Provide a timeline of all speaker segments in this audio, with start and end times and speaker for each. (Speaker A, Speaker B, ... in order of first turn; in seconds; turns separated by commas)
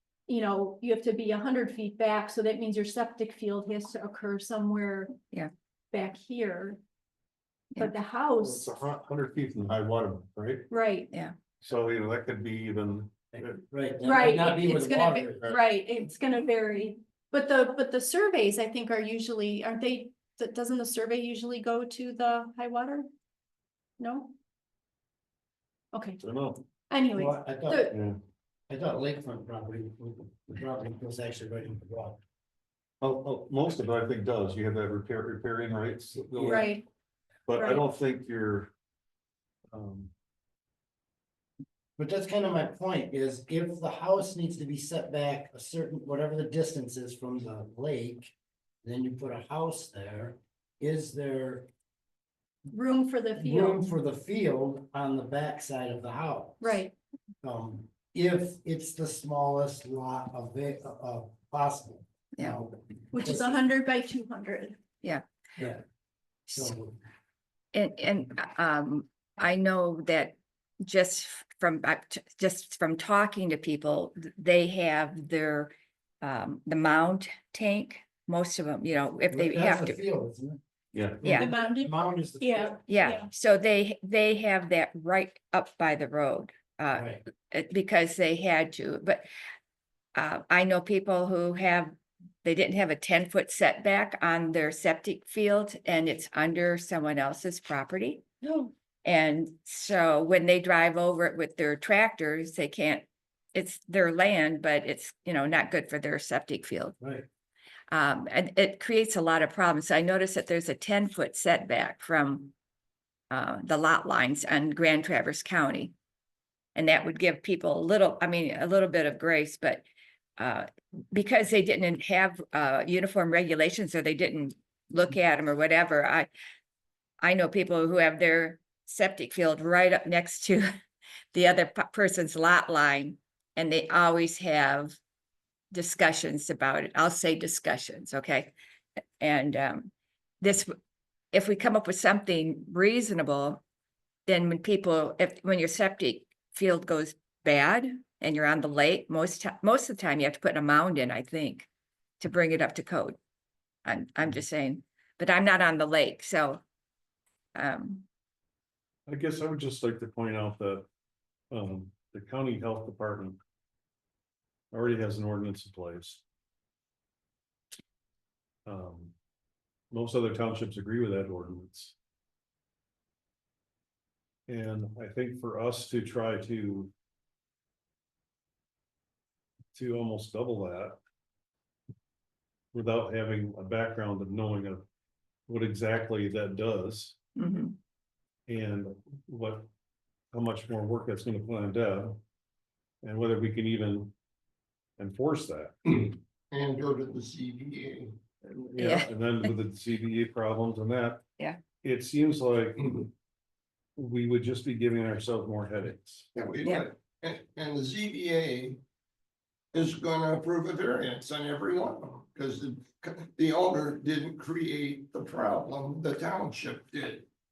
Speaker A: 0.3-5.2, Speaker A: 5.9-6.8, Speaker A: 7.8-8.7, Speaker B: 8.4-10.7, Speaker A: 10.7-11.1, Speaker B: 11.6-13.6, Speaker C: 13.5-15.5, Speaker A: 14.0-23.1, Speaker A: 24.0-24.3, Speaker A: 25.9-26.2, Speaker B: 26.2-26.6, Speaker A: 26.9-27.9, Speaker C: 27.1-27.9, Speaker C: 28.7-32.2, Speaker B: 33.0-36.7, Speaker C: 36.4-36.6, Speaker A: 36.4-36.9, Speaker B: 37.5-38.7, Speaker A: 37.5-37.9, Speaker B: 39.7-40.1, Speaker C: 42.0-51.7, Speaker A: 52.7-53.8, Speaker C: 53.4-56.8, Speaker A: 56.6-56.9, Speaker C: 57.4-63.6, Speaker A: 63.1-64.8, Speaker C: 65.6-65.8, Speaker D: 66.5-66.7, Speaker C: 66.5-67.0, Speaker D: 67.7-80.0, Speaker C: 79.3-80.6, Speaker B: 80.9-81.2, Speaker C: 81.1-82.8, Speaker D: 81.2-81.5, Speaker A: 81.3-83.3, Speaker D: 82.9-89.2, Speaker C: 86.9-87.2, Speaker D: 90.2-98.3, Speaker A: 98.4-98.7, Speaker D: 99.0-107.0, Speaker C: 107.0-107.3, Speaker D: 107.9-112.5, Speaker D: 113.3-115.9, Speaker D: 116.8-119.9, Speaker D: 120.4-126.3, Speaker D: 127.2-130.7, Speaker D: 131.3-135.0, Speaker D: 135.7-138.5, Speaker D: 139.2-140.7, Speaker D: 141.3-143.6, Speaker D: 144.3-151.7, Speaker D: 152.2-153.2, Speaker D: 153.8-156.6, Speaker D: 157.6-158.1, Speaker B: 159.1-160.9, Speaker B: 161.5-163.4, Speaker B: 164.7-166.2, Speaker B: 168.7-169.1, Speaker B: 169.9-171.9, Speaker B: 174.5-176.9, Speaker B: 179.7-181.0, Speaker B: 182.7-184.8, Speaker B: 185.5-187.2, Speaker D: 187.4-187.8, Speaker B: 188.5-189.7, Speaker B: 190.3-192.2, Speaker B: 193.0-194.1, Speaker B: 195.0-195.8, Speaker E: 195.9-198.2, Speaker B: 198.4-201.2, Speaker D: 198.8-199.5, Speaker B: 201.8-202.8, Speaker E: 202.8-203.1, Speaker B: 204.0-206.3, Speaker E: 206.3-208.8, Speaker E: 209.7-217.3